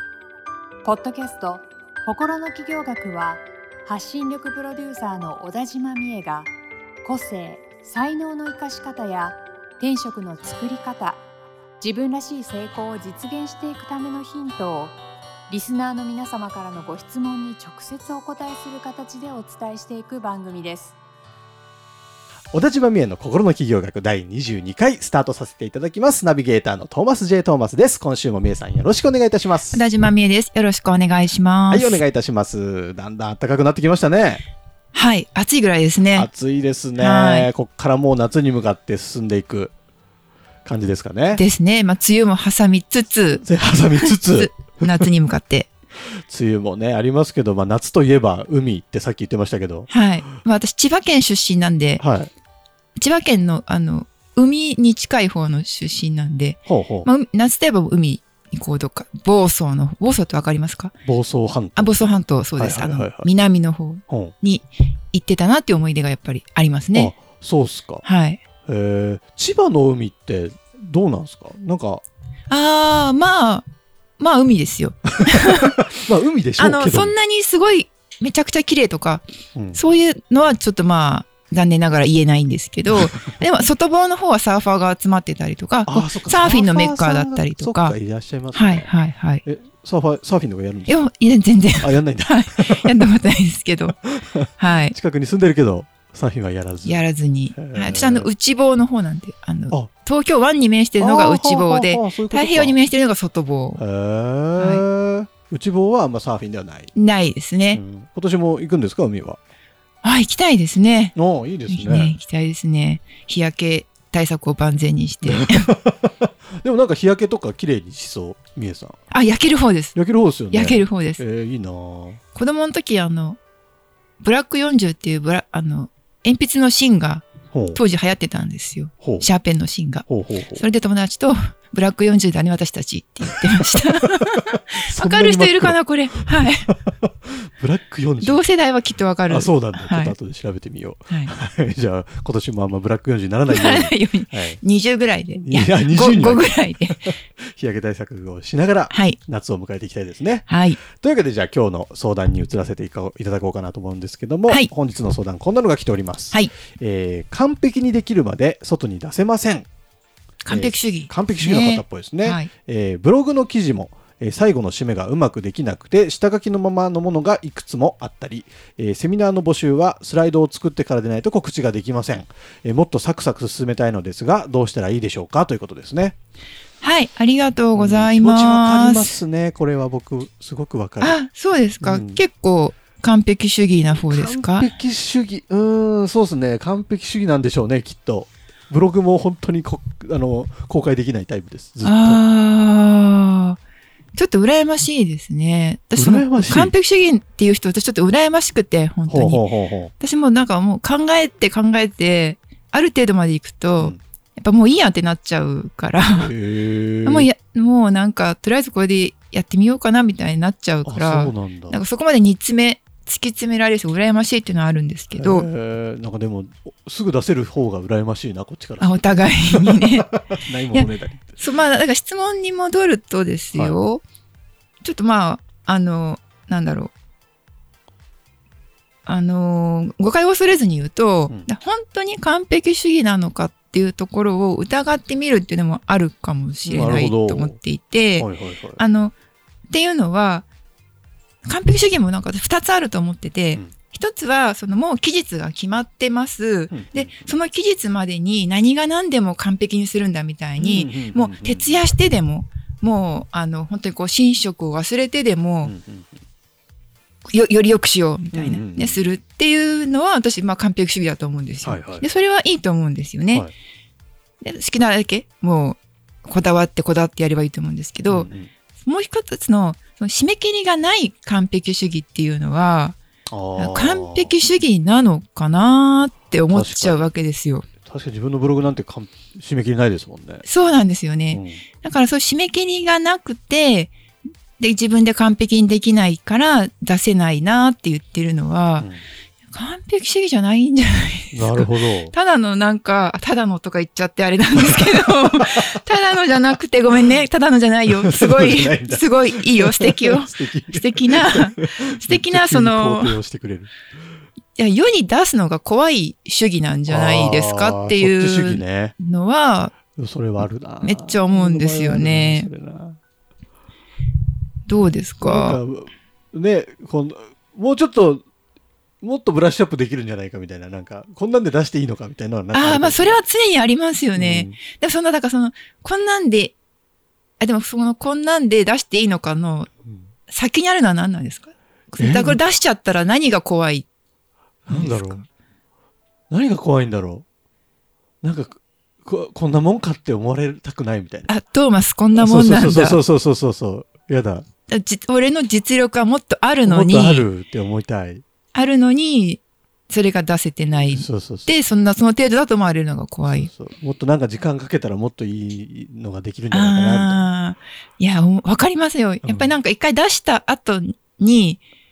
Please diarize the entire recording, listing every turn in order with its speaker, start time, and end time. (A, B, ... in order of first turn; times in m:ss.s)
0:00.8-0:06.5 A
0:07.0-0:11.2 A
0:11.8-0:15.0 A
0:15.5-0:21.0 A
0:22.5-0:29.8 B
0:29.7-0:32.0 C
0:31.7-0:34.4 B
0:34.9-0:36.3 C
0:36.1-0:39.7 B
0:37.0-0:37.5 C
0:40.6-0:41.4 B
0:41.3-0:45.7 C
0:43.4-0:45.1 B
0:46.0-0:49.9 B
0:49.9-0:52.0 C
0:52.0-0:52.3 B
0:53.0-1:00.9 C
0:56.7-0:57.1 B
1:01.0-1:03.3 B
1:01.8-1:07.2 C
1:04.1-1:04.3 B
1:06.9-1:08.0 B
1:08.0-1:08.4 C
1:08.6-1:12.0 B
1:12.5-1:13.6 C
1:14.2-1:15.7 C
1:15.3-1:17.1 B
1:16.6-1:28.0 C
1:25.9-1:28.9 B
1:28.5-1:29.4 C
1:29.4-1:31.0 B
1:30.9-1:34.0 C
1:31.8-1:33.0 B
1:33.9-1:38.3 B
1:34.6-1:34.9 C
1:36.8-1:43.8 C
1:41.0-1:42.8 B
1:43.8-1:46.9 B
1:44.6-1:44.8 C
1:46.9-1:47.8 C
1:47.7-1:49.4 B
1:50.0-1:51.2 C
1:51.1-1:52.2 B
1:51.7-1:55.7 C
1:55.2-1:59.0 B
1:59.1-2:00.0 C
1:59.9-2:02.2 B
2:00.5-2:01.2 C
2:02.3-2:03.4 C
2:04.2-2:16.7 C
2:07.5-2:07.8 B
2:09.0-2:09.3 B
2:10.1-2:10.6 B
2:13.7-2:18.4 B
2:18.2-2:20.1 C
2:19.3-2:24.6 B
2:23.5-2:27.1 C
2:25.3-2:39.7 B
2:28.9-2:29.2 C
2:30.5-2:30.8 C
2:40.4-2:42.5 C
2:40.5-2:56.2 B
2:56.8-2:59.2 C
2:57.7-3:01.2 B
3:01.0-3:04.7 C
3:01.8-3:02.2 B
3:04.1-3:12.2 B
3:11.8-3:13.6 C
3:14.1-3:19.4 C
3:15.9-3:16.7 B
3:19.1-3:19.9 B
3:20.0-3:26.3 C
3:26.0-3:27.3 B
3:27.0-3:35.5 C
3:30.8-3:31.8 B
3:35.2-3:41.4 B
3:38.8-3:40.1 C
3:40.7-3:44.0 C
3:44.8-3:46.9 C
3:49.0-3:59.1 C
3:56.6-3:57.6 B
3:58.2-3:58.8 B
3:59.7-4:00.4 C
4:01.4-4:15.7 C
4:06.7-4:07.3 B
4:10.6-4:11.8 B
4:15.6-4:16.2 B
4:17.3-4:23.5 C
4:18.3-4:19.1 B
4:21.6-4:22.1 B
4:24.4-4:33.0 C
4:28.1-4:28.5 B
4:33.3-4:34.3 B
4:33.6-4:37.7 C
4:36.5-4:37.0 B
4:37.8-4:40.4 B
4:40.4-4:43.9 C
4:41.3-4:41.6 B
4:44.6-4:48.9 C
4:49.5-5:03.2 C
4:51.3-4:52.1 B
4:54.6-4:55.8 B
4:57.9-5:03.7 B
5:04.5-5:09.7 C
5:06.9-5:08.9 B
5:10.0-5:13.0 B
5:10.8-5:12.5 C
5:14.6-5:15.6 C
5:15.2-5:18.2 B
5:19.0-5:23.2 B
5:22.5-5:26.5 C
5:24.2-5:24.6 B
5:27.4-5:29.7 C
5:30.3-5:33.8 C
5:32.0-5:32.4 B
5:34.6-5:35.2 C
5:34.7-5:35.2 B
5:36.3-5:37.2 B
5:38.2-5:41.3 B
5:41.3-5:43.0 C
5:42.2-5:44.4 B
5:44.7-5:47.3 C
5:46.6-5:48.2 B
5:48.5-5:53.5 C
5:50.8-5:51.5 B
5:53.2-5:57.3 B
5:56.5-6:01.6 C
5:59.2-5:59.5 B